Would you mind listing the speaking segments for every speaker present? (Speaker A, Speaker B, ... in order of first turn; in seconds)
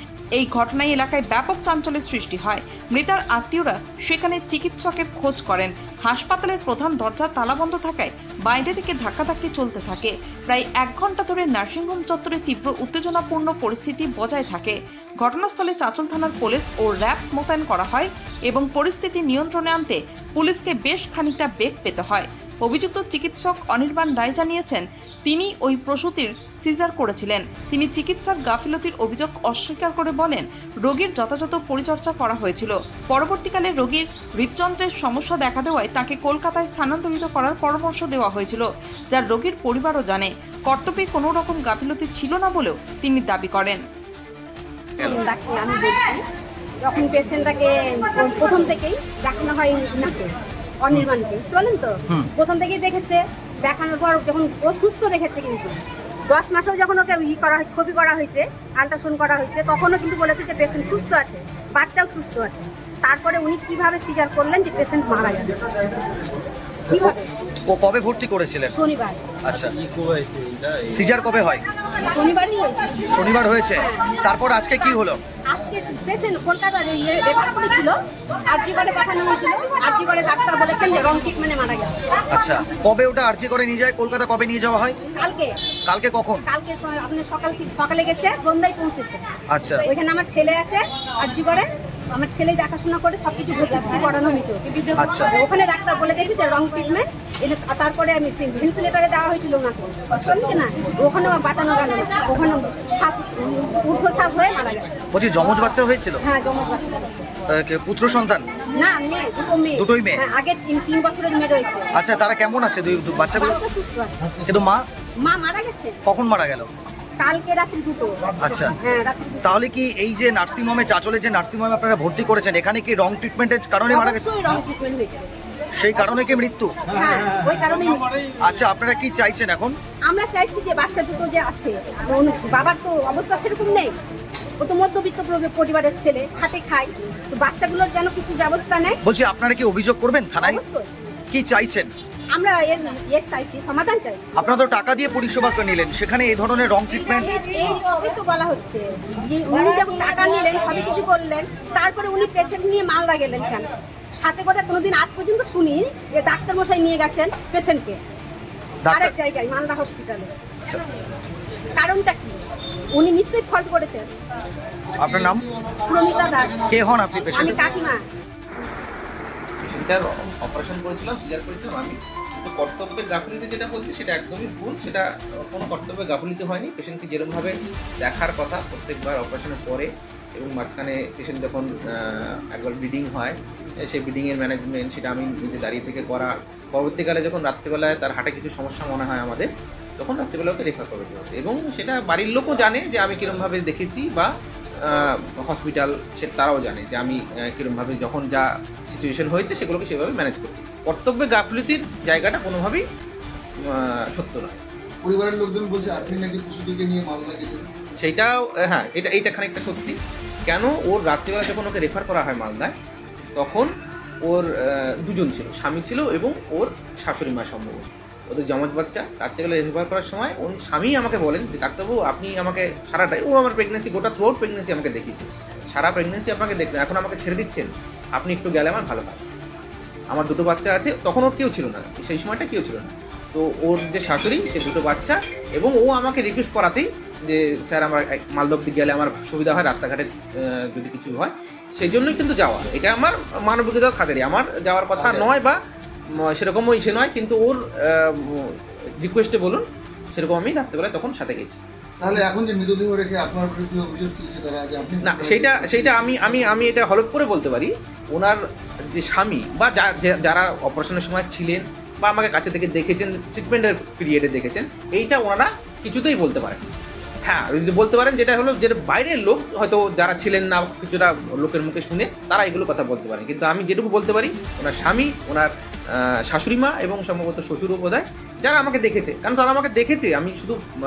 Speaker A: 0.4-43.8
Speaker B: 45.0-46.2, 46.8-65.5, 66.9-67.3, 68.7-69.2, 72.1-73.1, 73.8-74.2, 75.5-77.9, 78.5-82.0, 85.2-85.5, 86.5-89.2, 89.8-104.9, 106.2-107.3, 108.8-111.9, 113.4-114.3, 115.2-116.0, 117.2-119.5, 123.9-125.3, 126.0-128.1, 130.1-133.9, 134.6-139.0, 140.4-140.9, 142.4-144.4, 147.2-153.7, 154.2-158.0, 158.9-160.3, 161.8-162.4, 162.9-164.1, 165.9-166.7, 167.3-168.0
Speaker C: 67.6-68.7, 69.5-69.7, 70.8-71.6, 73.1-75.2, 82.3-85.0, 85.9-86.4, 89.5-89.9, 95.0-95.3, 105.1-106.2, 107.5-108.5, 109.8-110.2, 111.9-113.6, 114.5-114.8, 116.1-116.7, 118.4-118.8, 119.4-124.3, 125.8-126.8, 128.4-129.8, 139.1-140.6, 141.3-141.9, 144.4-147.3, 158.8-159.1, 165.0-165.4, 166.7-167.6
Speaker D: 169.6-194.3, 194.8-202.8, 203.7-204.6, 208.0-210.0, 210.5-213.7, 214.3-229.2, 230.1-245.6, 246.2-249.6, 250.2-251.6, 255.0-258.4, 259.0-266.7, 267.3-280.6
Speaker E: 205.0-207.7, 245.0-245.3, 252.0-256.8